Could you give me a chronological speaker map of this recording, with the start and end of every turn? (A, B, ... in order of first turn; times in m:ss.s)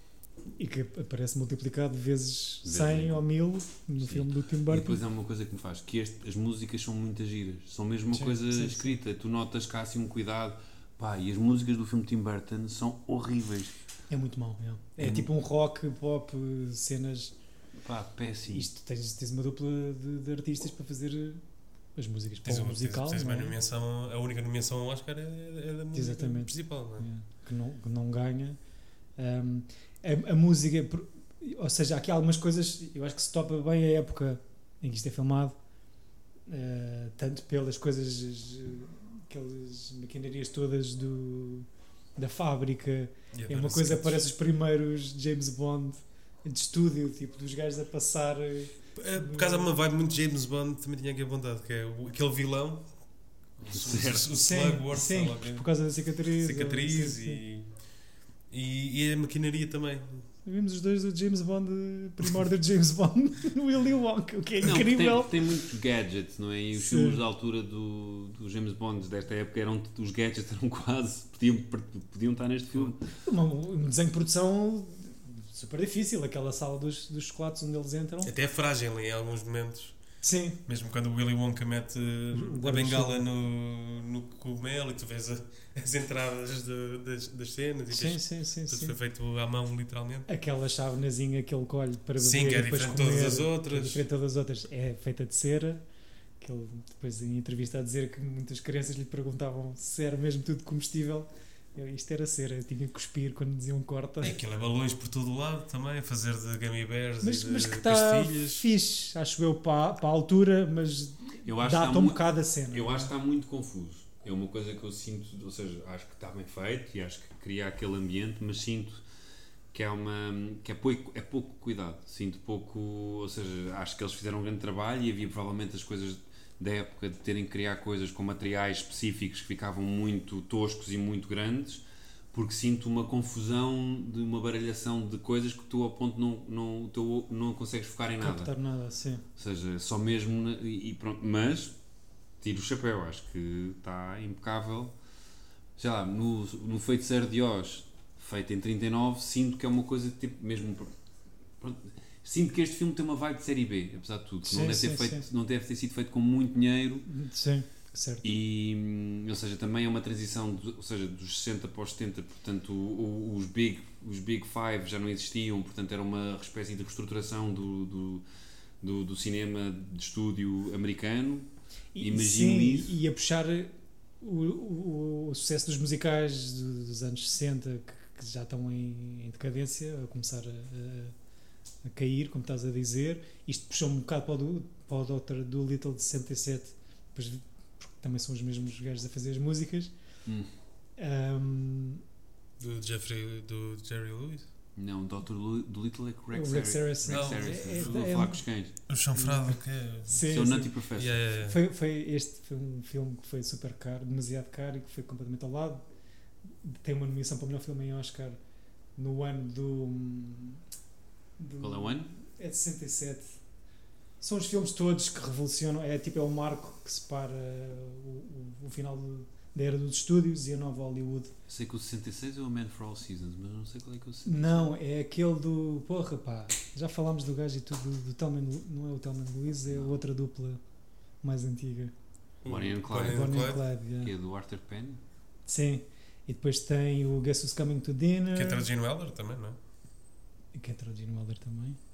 0:00.6-0:05.0 A
0:02.6-0:03.2 B
0:04.0-0:13.8 B
0:08.1-0:09.0 A
0:14.1-0:17.3 A
0:15.0-0:15.3 B
0:17.8-0:18.7 B
0:18.5-0:21.4 A
0:22.0-0:23.5 A
0:22.4-0:27.1 C
0:25.9-0:28.6 A
0:29.2-0:35.5 A
0:36.5-0:49.7 A
0:43.3-0:44.2 C
0:49.0-0:52.9 C
0:53.6-0:55.7 C
0:53.7-0:54.3 B
0:54.4-0:57.4 A
0:56.4-0:57.7 C
0:58.5-1:00.2 C
1:00.4-1:05.4 A
1:04.6-1:13.0 B
1:06.7-1:07.2 A
1:13.2-1:18.3 A
1:18.2-1:20.0 C
1:20.2-1:20.6 A
1:20.6-1:30.3 C
1:22.3-1:23.2 A
1:27.9-1:28.9 A
1:30.3-1:35.8 A
1:32.2-1:34.0 C
1:36.4-1:44.4 A
1:44.2-1:48.6 C
1:47.2-1:53.1 A
1:51.4-1:59.0 B
1:59.7-2:18.5 B
2:18.2-2:19.2 A
2:19.4-2:21.8 B
2:22.4-2:24.9 B
2:25.8-2:30.9 B
2:31.6-2:37.0 B
2:34.4-2:35.3 A
2:37.0-2:38.3 A
2:38.2-2:48.2 B
2:48.8-2:53.0 B
2:51.9-3:01.1 A
3:01.8-3:09.9 A
3:10.2-3:10.5 B
3:11.0-3:12.0 A
3:12.6-3:14.5 C
3:14.8-3:18.7 B
3:16.3-3:18.5 A
3:17.1-3:17.9 C
3:18.9-3:21.6 C
3:19.1-3:20.7 A
3:20.2-3:21.2 B
3:21.2-3:25.8 A
3:26.6-3:28.4 A
3:29.0-3:30.6 A
3:31.4-3:33.3 A
3:31.6-3:32.1 B
3:34.2-3:41.3 A
3:41.5-3:44.7 B
3:44.2-3:50.6 A
3:51.2-3:51.9 A
3:52.4-3:53.6 C
3:52.4-3:55.0 B
3:52.9-3:54.1 A
3:55.5-3:58.6 A
3:58.3-3:59.6 C
4:00.5-4:01.8 A